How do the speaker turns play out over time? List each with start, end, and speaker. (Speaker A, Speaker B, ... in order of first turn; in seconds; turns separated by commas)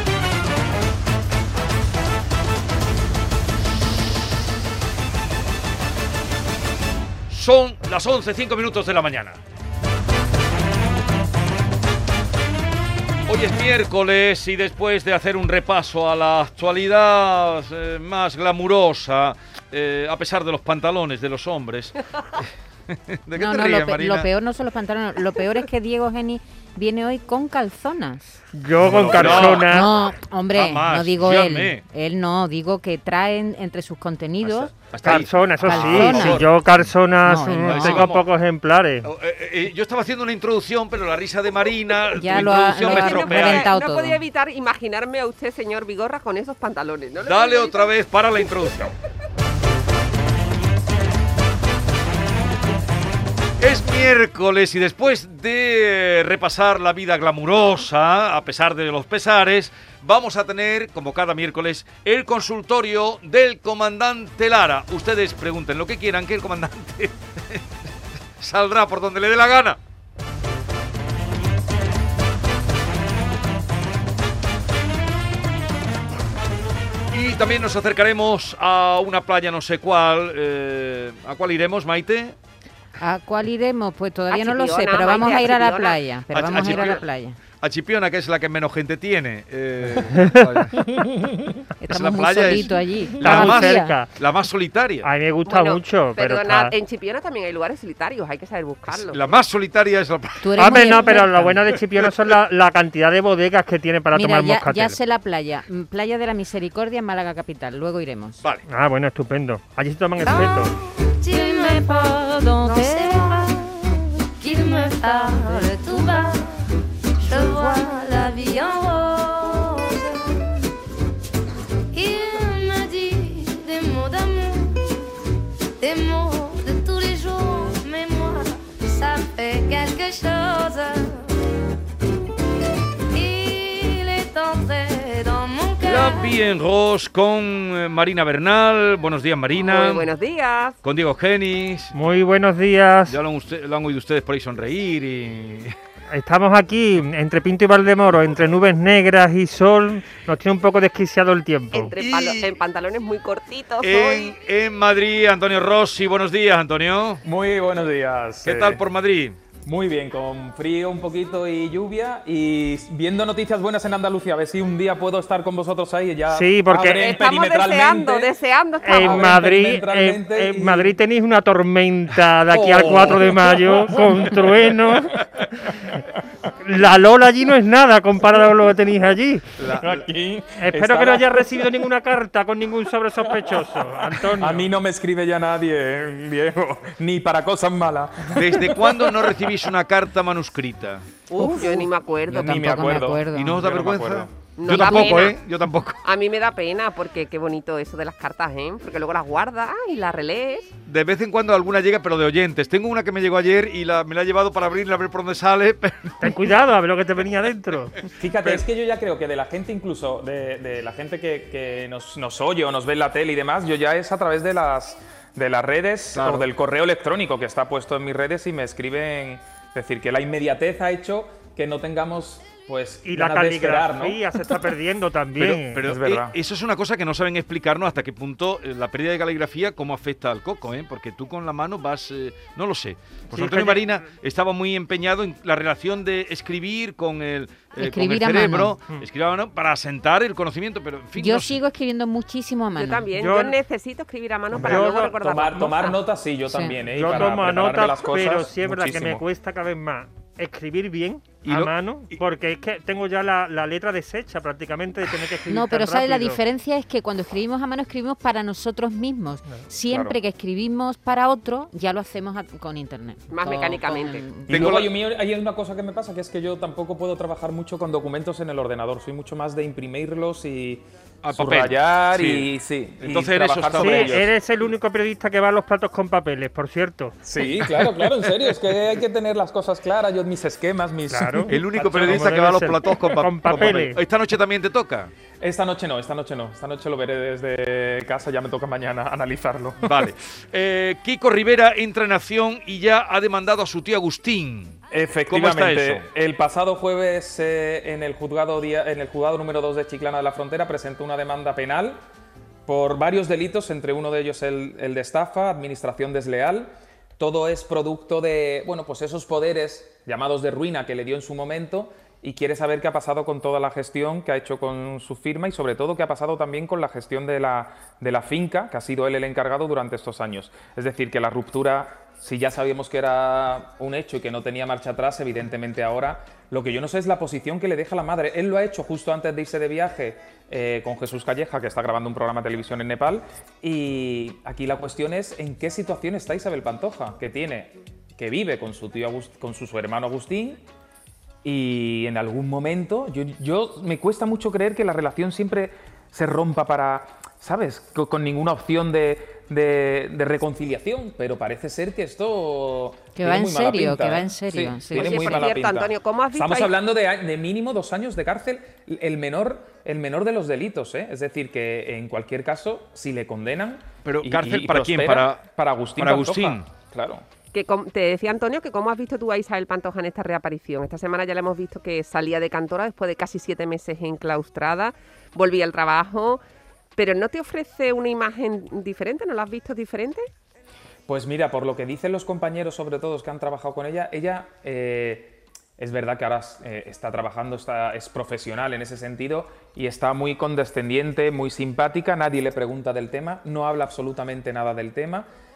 Speaker A: 7.3-9.4, Speaker A: 13.3-24.3, Speaker B: 23.4-28.4, Speaker C: 28.5-29.9, Speaker A: 28.8-29.9, Speaker B: 29.4-36.5, Speaker A: 30.5-31.8, Speaker A: 34.4-36.5, Speaker C: 35.0-39.1, Speaker B: 37.2-38.1, Speaker A: 37.4-38.3, Speaker A: 39.0-43.7, Speaker B: 42.1-44.2, Speaker D: 42.4-48.5, Speaker A: 47.2-48.9, Speaker A: 53.6-67.7, Speaker A: 68.4-69.8, Speaker A: 77.1-82.4, Speaker B: 83.0-87.4, Speaker D: 84.3-86.0, Speaker A: 86.3-87.0, Speaker D: 86.7-87.0, Speaker A: 87.6-91.0, Speaker C: 90.1-91.6, Speaker B: 91.8-94.0, Speaker A: 91.9-95.1, Speaker C: 93.1-94.1, Speaker C: 95.0-96.8, Speaker D: 95.5-99.4, Speaker A: 98.9-100.8, Speaker B: 100.4-101.6, Speaker C: 100.6-105.0, Speaker B: 104.1-108.4, Speaker C: 108.7-110.7, Speaker E: 110.2-116.6, Speaker B: 110.2-110.5, Speaker B: 111.3-113.7, Speaker E: 117.2-120.6, Speaker B: 117.3-117.8, Speaker E: 121.9-125.1, Speaker E: 125.8-131.3, Speaker E: 133.1-136.3, Speaker A: 135.8-140.1, Speaker D: 139.6-140.8, Speaker A: 140.8-141.9, Speaker C: 141.9-143.2, Speaker A: 143.1-145.8, Speaker C: 146.1-151.9, Speaker D: 151.7-154.3, Speaker A: 152.0-152.5, Speaker A: 153.8-157.2, Speaker F: 157.2-158.8, Speaker A: 158.4-159.4, Speaker F: 159.7-168.3, Speaker C: 166.3-167.1, Speaker D: 166.9-169.4, Speaker C: 168.8-175.7, Speaker F: 168.9-171.0, Speaker A: 172.5-174.0, Speaker C: 176.6-179.5, Speaker A: 179.6-180.1, Speaker F: 179.8-181.7, Speaker C: 180.6-184.7, Speaker F: 183.3-189.6, Speaker A: 188.3-191.1, Speaker D: 191.3-192.5, Speaker B: 191.4-193.7, Speaker F: 191.4-191.7, Speaker F: 192.3-194.3, Speaker A: 193.3-196.0, Speaker D: 194.6-195.4, Speaker D: 196.0-200.7, Speaker A: 200.9-206.3, Speaker C: 206.2-208.6, Speaker F: 208.2-224.5, Speaker C: 223.1-225.8, Speaker A: 225.4-241.6, Speaker F: 225.8-226.4, Speaker C: 233.3-233.9, Speaker B: 237.8-238.8, Speaker B: 241.2-243.1, Speaker D: 242.8-245.9, Speaker C: 243.1-243.6, Speaker C: 244.5-245.9, Speaker F: 244.5-249.2, Speaker B: 246.5-246.7, Speaker C: 246.8-256.4, Speaker A: 251.4-252.2, Speaker B: 255.5-264.7, Speaker F: 259.9-260.2, Speaker D: 263.3-264.2, Speaker A: 264.5-264.9, Speaker F: 264.5-274.3, Speaker A: 271.2-274.2, Speaker C: 273.8-277.2, Speaker F: 277.2-282.3, Speaker C: 281.1-284.0, Speaker A: 281.5-285.1, Speaker F: 285.4-290.1, Speaker A: 289.8-294.8, Speaker F: 294.9-302.0, Speaker A: 295.3-296.0, Speaker F: 302.7-340.6, Speaker F: 341.4-367.2, Speaker B: 353.2-355.4, Speaker D: 354.9-356.7, Speaker A: 364.1-365.4, Speaker A: 366.0-366.6, Speaker D: 367.5-376.4, Speaker D: 377.0-380.3, Speaker F: 381.1-395.3